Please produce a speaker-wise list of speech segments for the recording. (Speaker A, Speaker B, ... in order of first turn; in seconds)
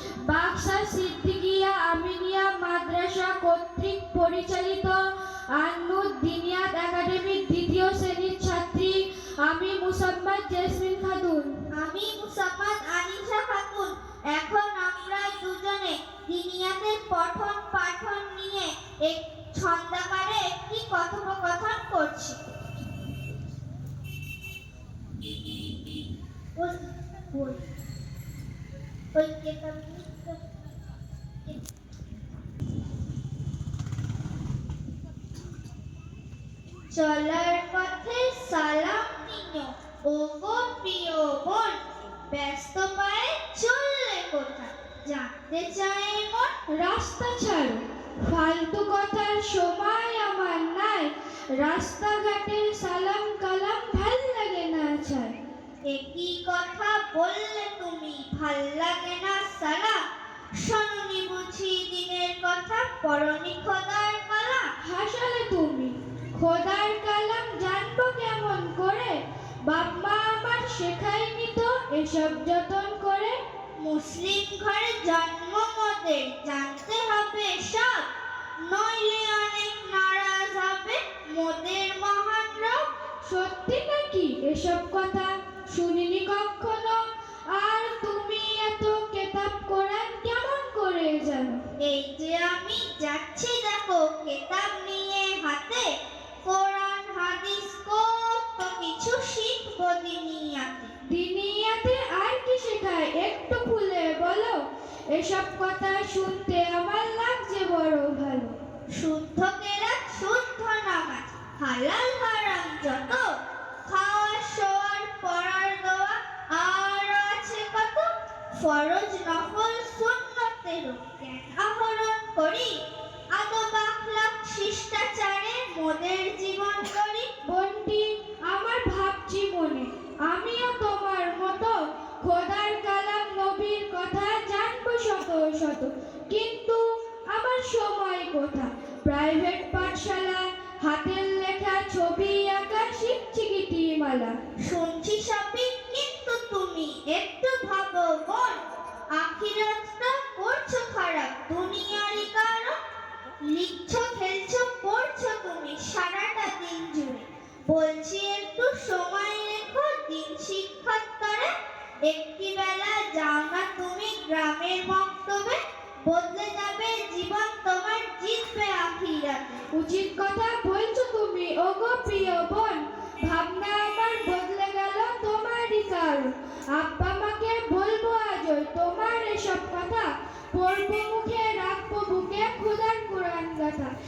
Speaker A: 0.2-5.0, 5.5-11.5, 46.7-55.3, 64.8-73.4, 83.2-91.6, 101.1-108.6, 127.5-144.4, 169.7-183.9
Speaker B: 11.7-22.4, 26.6-27.6, 29.1-30.4, 36.9-46.5, 55.9-60.0, 60.5-64.7, 73.8-78.1, 78.7-82.8, 91.8-95.9, 96.4-100.9, 108.9-113.3, 113.9-122.8, 123.3-127.3, 144.6-148.6, 149.1-152.8, 153.4-161.5, 162.0-169.7